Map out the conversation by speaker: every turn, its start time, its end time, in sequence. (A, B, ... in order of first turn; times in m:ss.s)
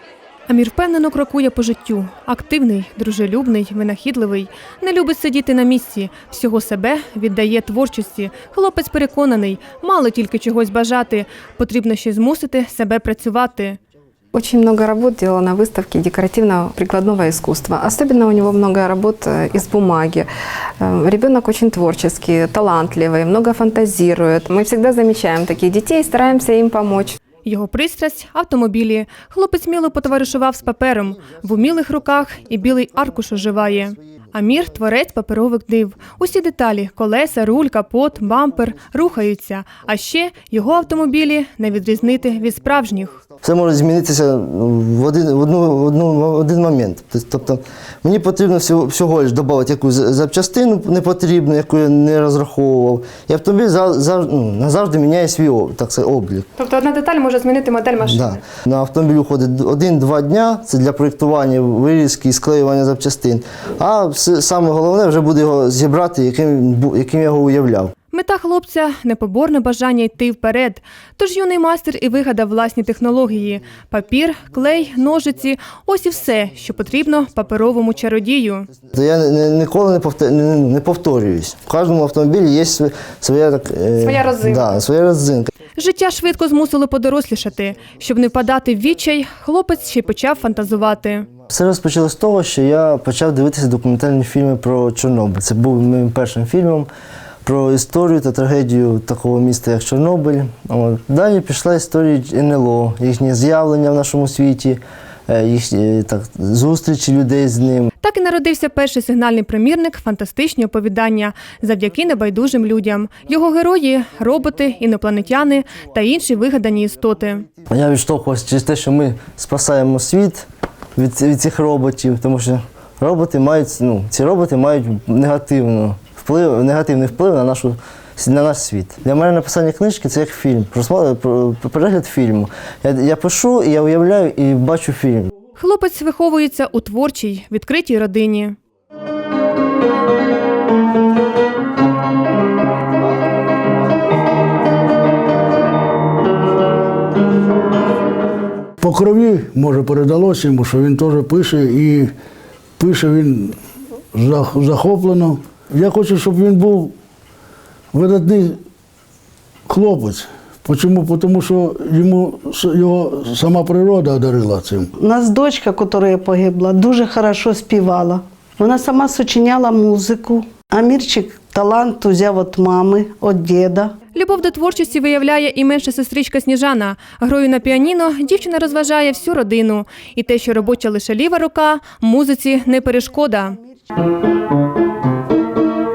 0:00.5-0:13.8 A
0:14.3-0:20.3 B
0:20.8-0:27.2 B
0:27.4-0:43.2 A
0:43.4-0:56.5 C
0:56.6-0:58.4 A
0:58.0-1:07.9 C
1:08.1-1:18.7 A
1:18.9-1:25.5 C
1:24.0-1:24.6 A
1:25.8-1:31.3 A
1:31.5-1:36.9 C
1:37.4-1:47.9 C
1:48.0-1:57.5 A
1:57.7-2:15.3 C
2:15.6-2:18.6 A
2:28.8-2:32.1 D
2:32.8-2:33.6 D
2:34.1-2:37.0 D
2:37.9-2:38.6 D
2:39.7-2:44.9 D
2:45.0-2:53.9 E
2:54.1-3:03.6 A